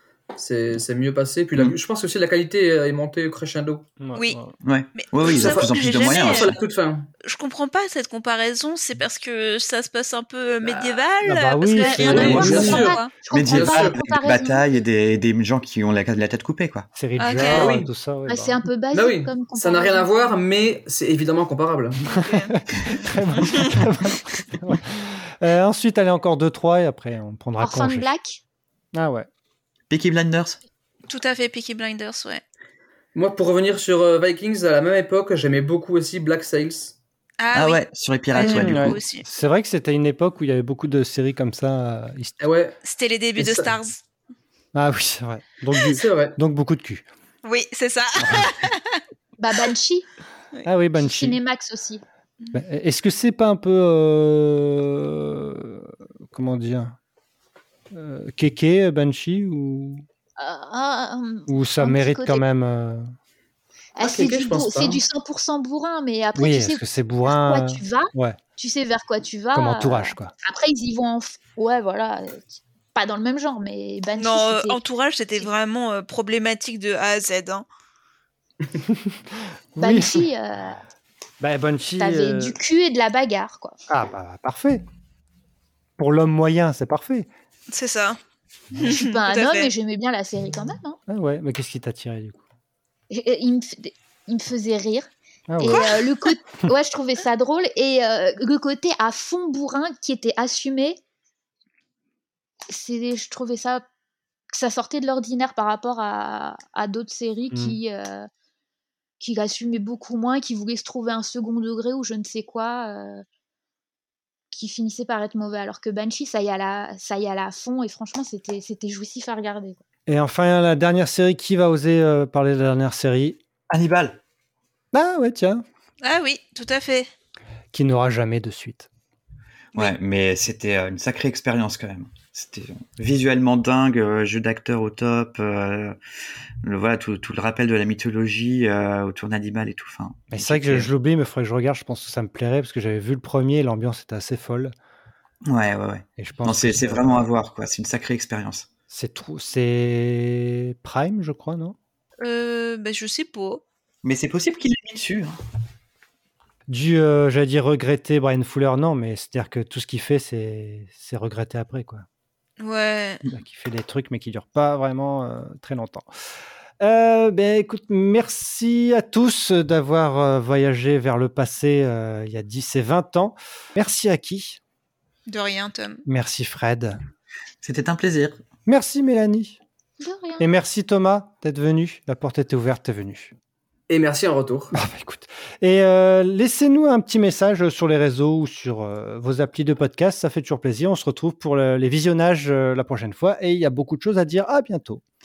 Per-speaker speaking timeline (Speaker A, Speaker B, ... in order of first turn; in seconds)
Speaker A: 0.3-3.9, 5.2-7.1, 10.6-11.0, 11.8-14.0, 17.4-17.9, 18.9-22.0, 33.1-37.0, 42.4-42.8, 43.4-43.7, 45.9-46.4, 64.0-65.0, 183.9-184.7
Speaker B: 4.0-4.5, 11.3-12.9, 17.0-18.6, 22.1-28.1, 28.9-29.3, 38.5-42.4, 44.8-47.0, 48.2-48.5, 50.6-51.4, 52.5-57.0, 57.9-60.0, 61.5-63.1, 66.3-68.4, 69.5-70.3, 78.9-80.3, 81.4-82.6, 83.9-84.8, 86.0-87.3, 91.1-92.4, 95.5-95.9, 107.5-107.8, 120.1-123.4, 124.9-125.6, 127.7-128.9, 140.3-144.7, 146.2-147.3, 148.9-151.8, 156.7-162.1, 163.3-166.1, 166.8-174.6, 176.1-177.0, 178.7-179.6, 180.4-183.3, 184.7-195.0
Speaker C: 4.6-6.6, 12.2-12.6, 13.3-16.9, 29.9-30.6, 37.5-39.0, 123.7-124.2, 129.8-136.0, 136.6-140.9, 145.5-148.7, 154.0-155.4, 177.6-178.4
Speaker D: 5.0-6.6, 7.2-13.1, 17.2-17.7, 22.1-23.8, 31.1-32.4, 37.4-37.8, 38.3-39.2, 42.8-44.0, 47.4-49.0, 74.2-77.7, 87.7-88.2, 88.8-89.7, 95.7-96.3, 126.0-127.1, 152.2-153.6, 162.6-163.2, 175.3-176.0
Speaker E: 12.2-14.7, 18.3-20.4, 27.6-28.4, 49.4-50.1, 51.0-52.0, 60.4-62.4, 64.0-74.8, 79.8-80.8, 82.0-83.8, 88.8-91.0, 93.1-95.1, 95.6-101.0, 102.7-103.8, 104.5-108.3, 109.2-113.2, 114.5-119.8, 180.0-180.4